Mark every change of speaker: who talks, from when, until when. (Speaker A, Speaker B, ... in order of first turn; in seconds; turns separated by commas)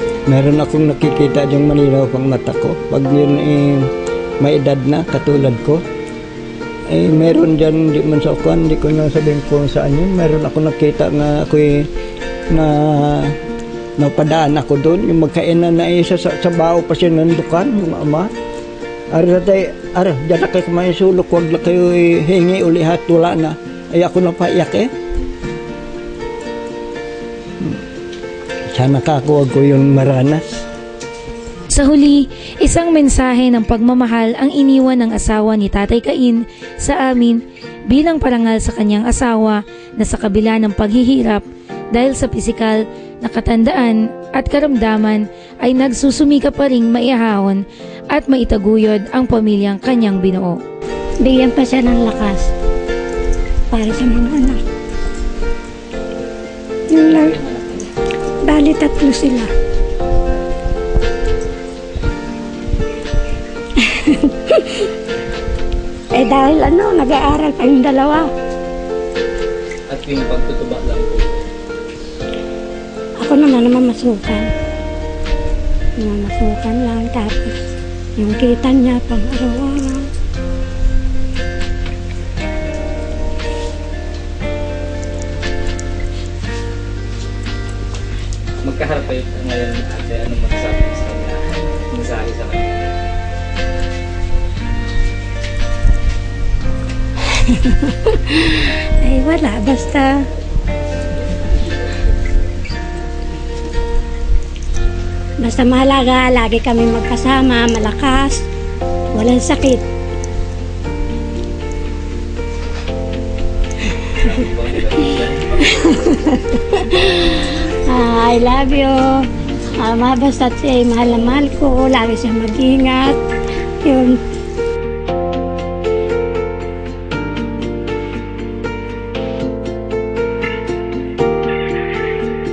Speaker A: 0.3-5.8, Speaker A: 6.9-11.9, Speaker A: 12.5-13.4, Speaker A: 14.0-18.3, Speaker A: 19.1-24.9, Speaker A: 28.7-30.6, Speaker B: 31.7-50.6, Speaker C: 51.2-52.5, Speaker C: 53.7-54.6, Speaker C: 56.9-57.4, Speaker D: 57.1-57.9, Speaker C: 58.4-59.5, Speaker C: 63.8-64.9, Speaker C: 66.1-68.3, Speaker D: 69.9-71.5, Speaker C: 73.2-74.5, Speaker C: 76.0-77.6, Speaker C: 78.2-80.1, Speaker D: 88.6-92.9, Speaker C: 97.3-100.2, Speaker C: 105.4-108.4, Speaker C: 109.1-109.8, Speaker D: 114.0-116.0, Speaker C: 115.7-123.2, Speaker C: 123.8-124.2